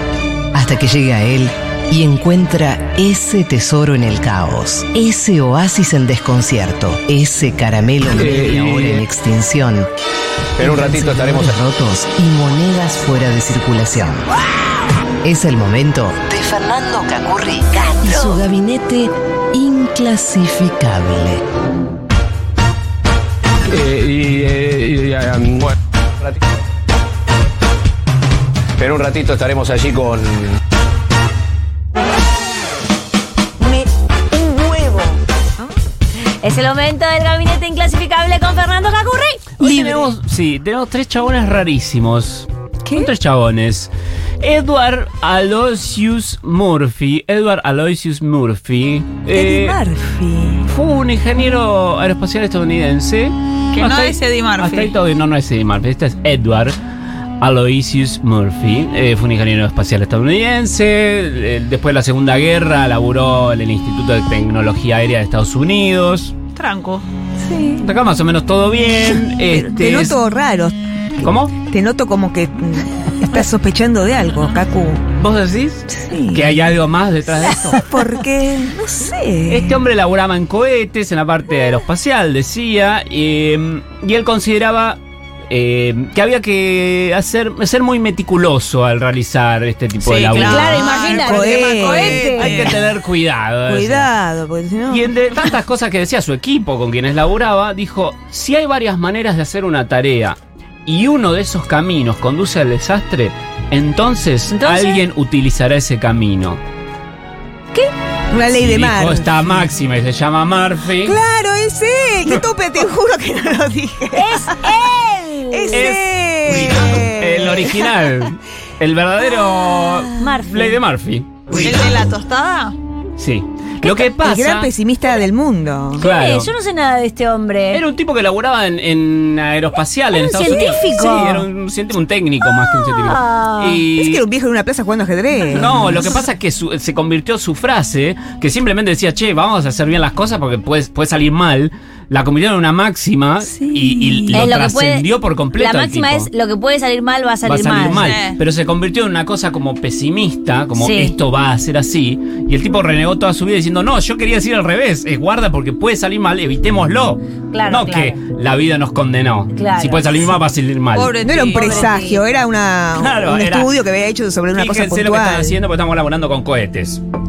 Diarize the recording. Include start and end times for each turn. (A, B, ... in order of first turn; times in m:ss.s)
0:00.5-0:09.9 A
0:08.2-0:09.0 B
0:10.6-0:11.5 B
0:10.6-0:14.2 A
0:15.2-0:16.6 A
0:17.5-0:21.4 A
0:23.7-0:25.7 B
0:28.8-0:30.3 B
0:33.6-0:35.6 C
0:36.4-0:39.6 D
0:39.6-0:49.8 E
0:39.6-0:40.1 C
0:42.8-0:43.1 C
0:49.3-0:50.7 C
0:50.7-0:56.8 E
0:53.7-0:54.9 F
0:57.4-1:06.4 E
1:06.5-1:07.0 F
1:07.4-1:07.9 C
1:07.8-1:10.2 E
1:09.5-1:15.1 C
1:11.2-1:11.5 E
1:15.2-1:17.8 E
1:15.9-1:16.5 C
1:17.7-1:19.8 C
1:19.5-1:25.0 E
1:25.5-1:31.3 E
1:30.0-1:32.9 F
1:30.3-1:32.7 D
1:31.2-1:32.2 C
1:32.2-1:34.1 E
1:33.6-1:35.1 C
1:34.9-1:46.6 E
1:44.5-1:45.0 D
1:48.3-1:49.6 C
1:48.6-1:51.2 E
1:51.0-1:54.9 C
1:54.1-1:55.9 D
1:55.5-1:58.0 C
1:55.7-1:56.1 E
1:57.0-2:01.5 E
2:00.2-2:00.8 D
2:01.5-2:02.8 F
2:03.2-2:04.7 E
2:04.2-2:06.0 C
2:06.0-2:07.8 D
2:06.0-2:06.5 E
2:07.7-2:14.2 E
2:10.1-2:11.5 D
2:12.5-2:13.8 D
2:13.9-2:16.1 C
2:15.5-2:26.3 E
2:23.4-2:24.5 C
2:24.3-2:28.1 D
2:27.4-2:41.2 E
2:27.9-2:28.4 F
2:30.8-2:31.1 D
2:37.5-2:38.2 D
2:39.5-2:40.4 D
2:40.9-2:41.9 F
2:41.2-2:45.6 C
2:41.5-2:42.2 D
2:42.9-2:43.7 E
2:44.5-2:47.0 E